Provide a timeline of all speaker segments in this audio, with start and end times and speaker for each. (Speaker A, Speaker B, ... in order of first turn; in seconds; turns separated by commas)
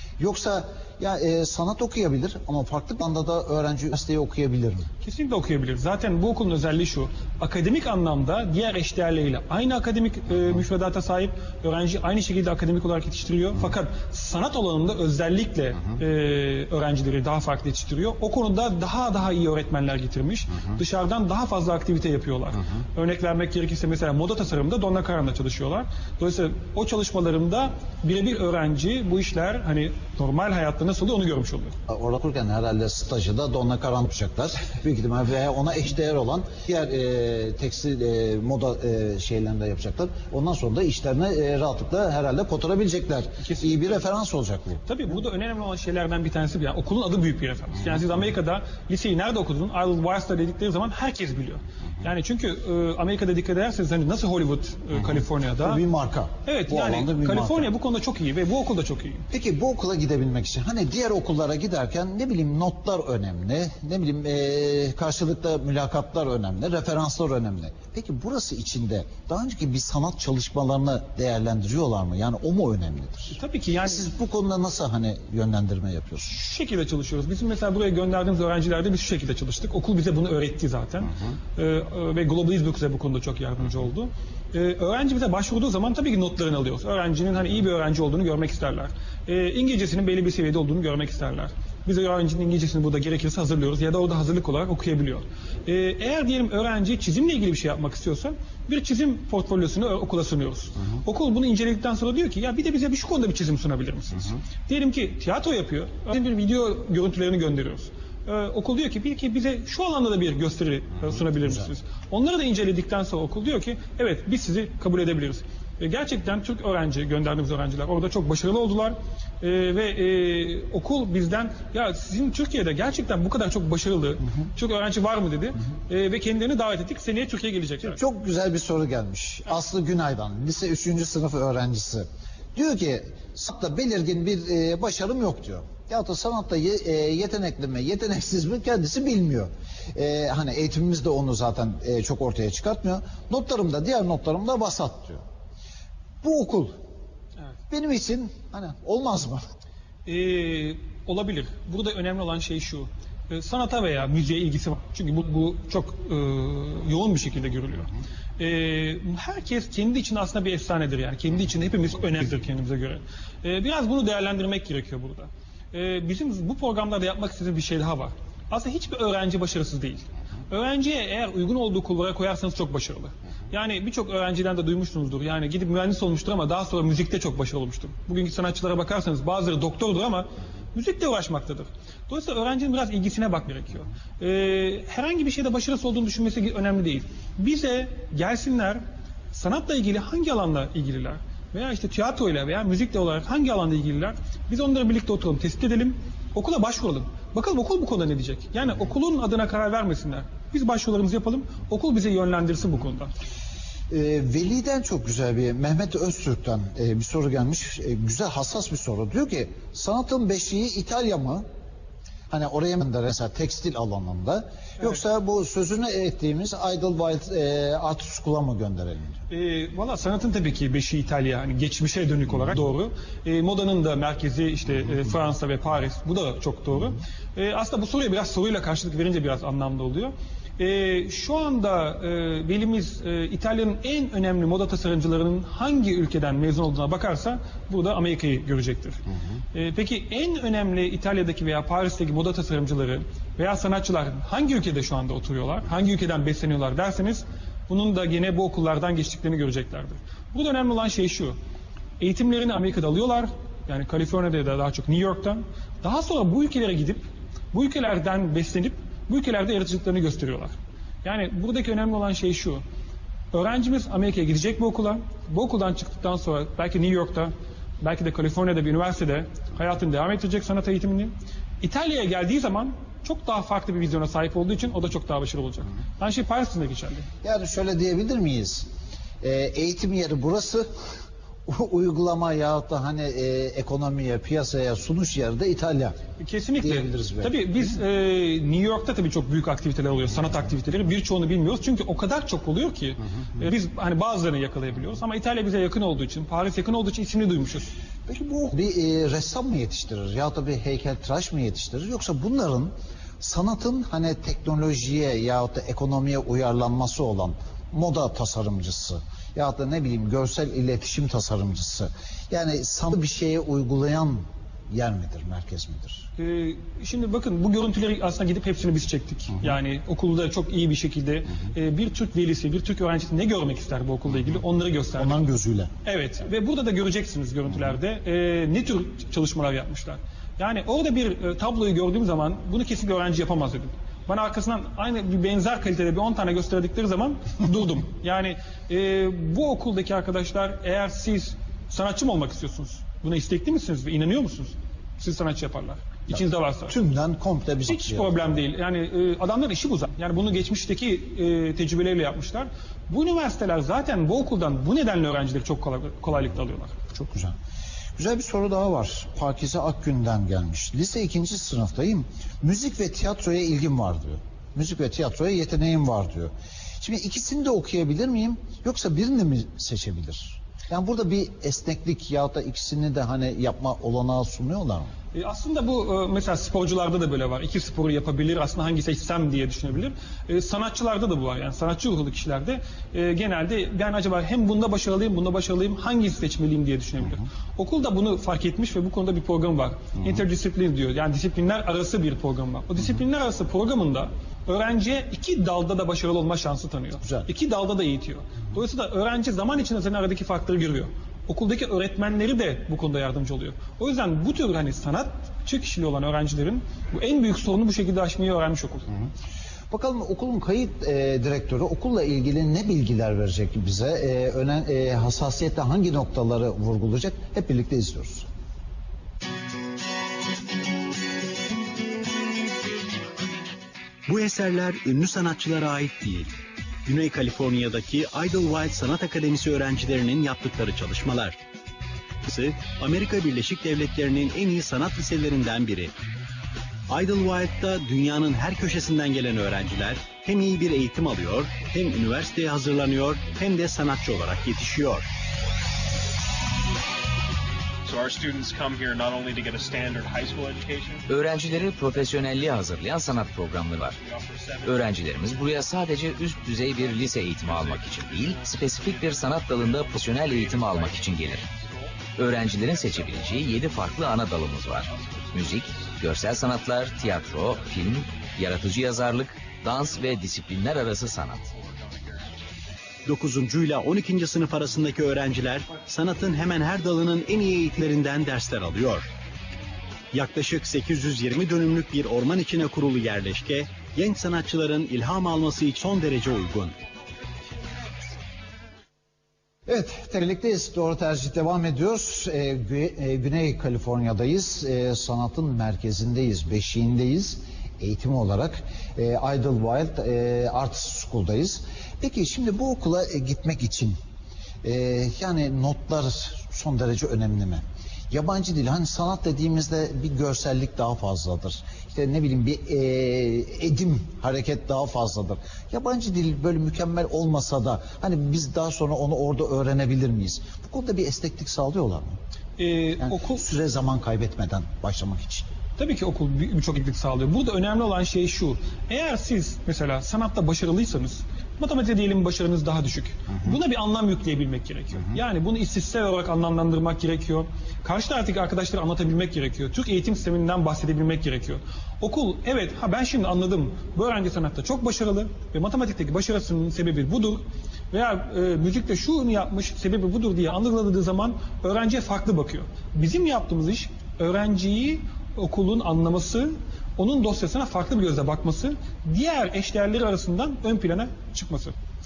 Speaker A: 0.2-4.9, Speaker B: 5.0-31.7, Speaker A: 31.9-44.8, Speaker B: 43.4-44.0, Speaker B: 44.8-55.8, Speaker A: 55.6-57.7, Speaker B: 56.4-59.2, Speaker A: 59.3-76.3, Speaker B: 73.3-74.1, Speaker B: 76.2-128.0, Speaker A: 127.8-145.2, Speaker A: 146.2-146.7, Speaker A: 147.7-149.4, Speaker B: 150.1-203.1, Speaker A: 203.9-211.4, Speaker A: 212.3-219.2, Speaker B: 219.3-239.0, Speaker B: 239.5-251.3, Speaker B: 252.0-262.6, Speaker B: 263.3-277.1, Speaker A: 277.2-278.7, Speaker A: 279.2-280.6, Speaker A: 281.4-286.0, Speaker B: 286.2-297.7, Speaker A: 286.6-287.4, Speaker A: 298.1-316.1, Speaker B: 316.2-325.2, Speaker A: 325.0-325.7, Speaker B: 325.8-346.7, Speaker A: 346.7-348.3, Speaker B: 347.6-356.7, Speaker A: 356.9-357.4, Speaker A: 357.9-374.9, Speaker B: 375.1-408.9, Speaker A: 397.0-397.3, Speaker A: 409.7-418.3, Speaker C: 424.1-426.3, Speaker C: 426.9-431.4, Speaker C: 432.2-435.9, Speaker C: 436.9-445.1, Speaker D: 447.8-452.4, Speaker E: 451.1-454.0, Speaker D: 453.1-470.8, Speaker E: 454.6-461.4, Speaker E: 462.1-471.4, Speaker D: 471.3-472.2, Speaker C: 473.1-479.1, Speaker C: 480.1-486.7, Speaker A: 489.7-503.9, Speaker A: 504.6-522.2, Speaker B: 522.6-523.4, Speaker A: 523.0-525.5, Speaker B: 525.8-561.7